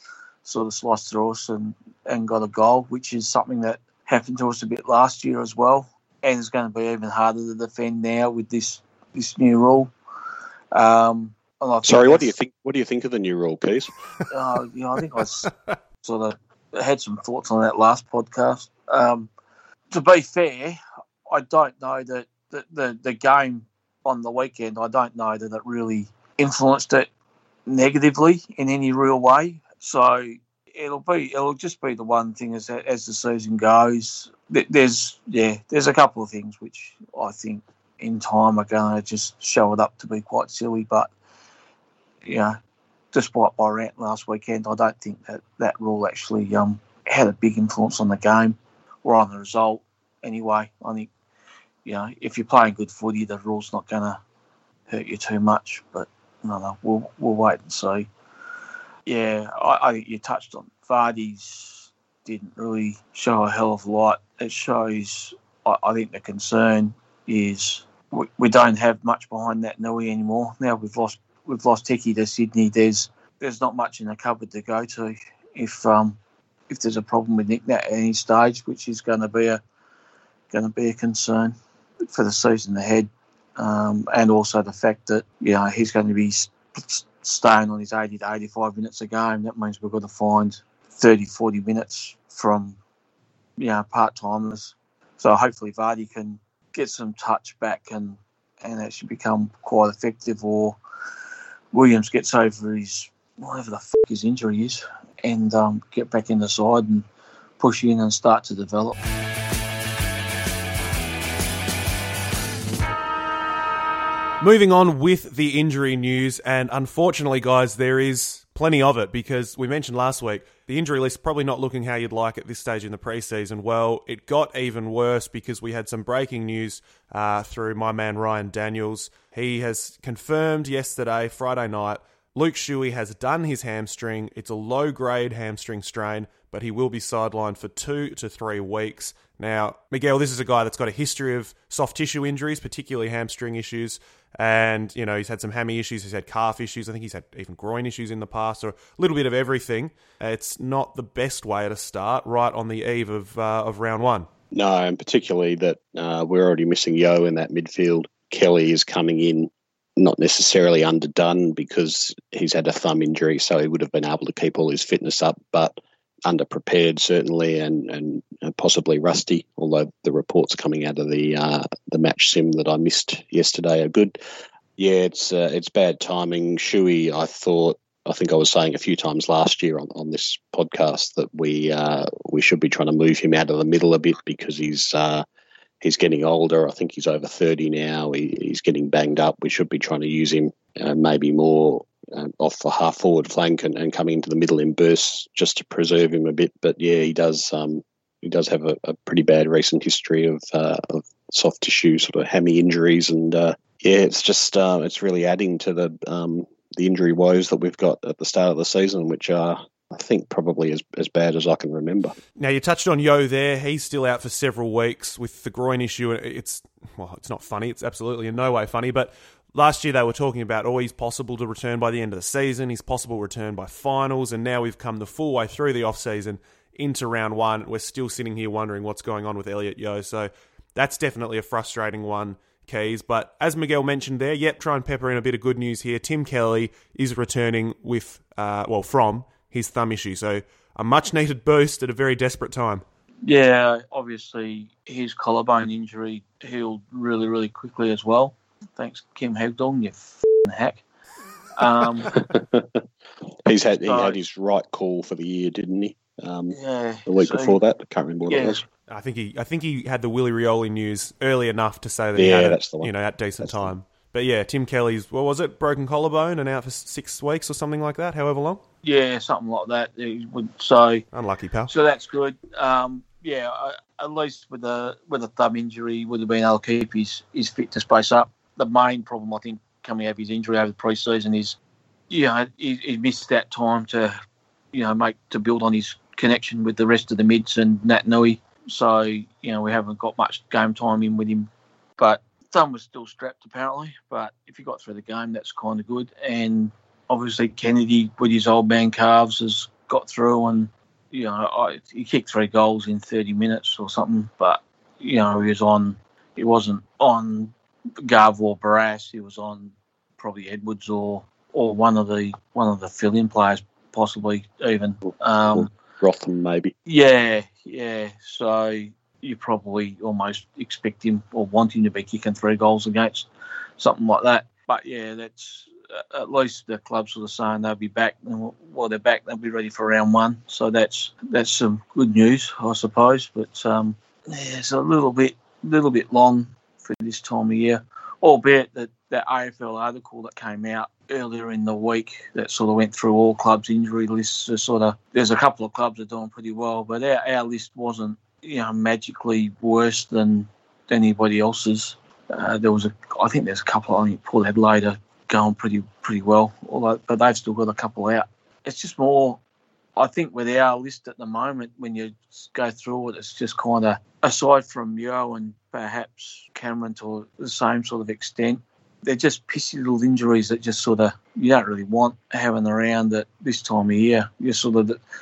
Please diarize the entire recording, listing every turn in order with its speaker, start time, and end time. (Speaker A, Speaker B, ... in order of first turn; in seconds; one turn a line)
Speaker A: 0.4-9.9
Speaker A: 10.7-12.3
Speaker B: 11.8-13.9
Speaker A: 14.3-15.5
Speaker A: 16.0-19.3
Speaker A: 19.9-20.8
Speaker A: 21.3-27.1
Speaker A: 27.6-41.1
Speaker A: 42.2-42.6
Speaker A: 43.1-51.1
Speaker A: 51.8-54.2
Speaker A: 54.9-58.1
Speaker A: 59.1-76.2
Speaker A: 76.7-79.6
Speaker A: 80.5-81.5
Speaker A: 82.1-92.8
Speaker A: 93.6-100.8
Speaker A: 101.7-107.0
Speaker A: 107.6-108.9
Speaker C: 114.4-154.3
Speaker B: 154.5-174.2
Speaker B: 174.8-185.2
Speaker B: 185.8-212.1
Speaker C: 212.4-242.8
Speaker A: 243.2-250.8
Speaker A: 251.6-252.1
Speaker B: 252.1-252.8
Speaker B: 253.4-258.6
Speaker A: 253.8-254.2
Speaker A: 256.5-257.6
Speaker A: 258.3-258.6
Speaker C: 258.9-268.6
Speaker B: 262.1-263.7
Speaker A: 268.8-271.0
Speaker C: 271.1-271.7
Speaker A: 271.7-281.6
Speaker A: 282.1-284.1
Speaker A: 284.7-315.7
Speaker B: 315.5-316.7
Speaker A: 316.9-359.4
Speaker A: 360.0-375.0